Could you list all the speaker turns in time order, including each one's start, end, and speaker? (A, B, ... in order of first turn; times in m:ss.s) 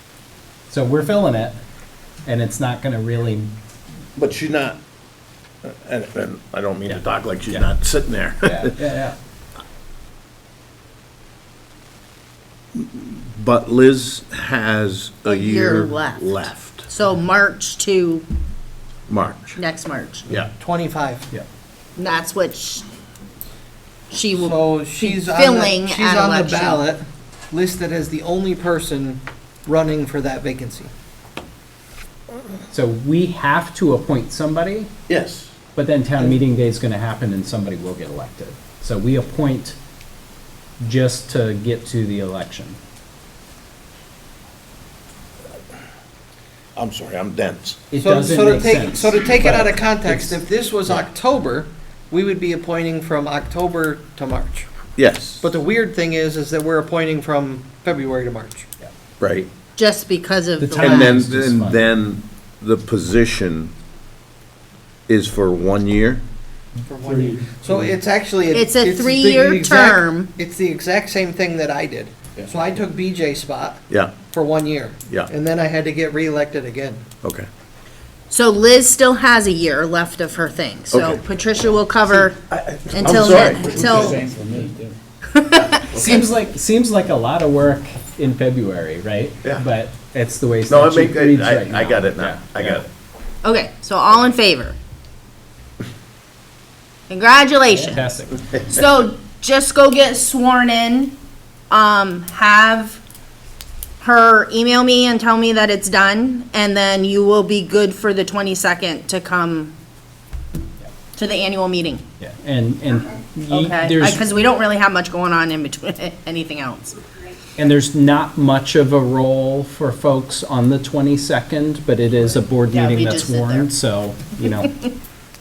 0:00.7-0:01.6 A
0:02.2-0:03.5 A
0:04.2-0:04.8 B
0:05.6-0:08.7 B
0:08.4-0:09.2 A
0:12.8-0:16.9 B
0:15.2-0:18.2 C
0:19.1-0:19.6 B
0:19.6-0:20.3 C
0:20.4-0:21.3 D
0:22.0-0:22.8 C
0:24.1-0:26.8 C
0:24.3-0:30.9 D
0:32.7-0:34.9 A
0:35.1-0:35.5 B
0:35.8-0:39.8 A
0:40.8-0:42.8 A
0:46.8-0:47.8 B
0:47.9-0:50.3 A
0:47.9-0:54.7 D
0:55.0-0:55.4 B
0:55.4-0:58.7 D
0:59.2-0:59.5 B
0:59.8-1:01.1 C
1:00.6-1:01.8 A
1:00.8-1:03.7 B
1:05.1-1:06.2 B
1:06.8-1:17.1 D
1:08.5-1:10.3 C
1:13.9-1:14.2 B
1:17.2-1:17.5 B
1:18.3-1:22.4 C
1:20.9-1:21.2 B
1:22.2-1:24.2 B
1:22.9-1:24.3 C
1:23.6-1:24.9 A
1:25.3-1:26.2 C
1:25.9-1:32.8 A
1:30.7-1:32.9 B
1:33.4-1:34.8 C
1:37.1-1:38.0 C
1:37.7-1:38.4 A
1:38.6-1:41.2 C
1:41.7-1:43.0 C
1:44.0-1:49.7 C
1:51.1-1:52.0 C
1:52.2-1:54.2 A
1:53.5-1:57.0 C
1:57.6-2:04.7 A
2:02.6-2:03.7 C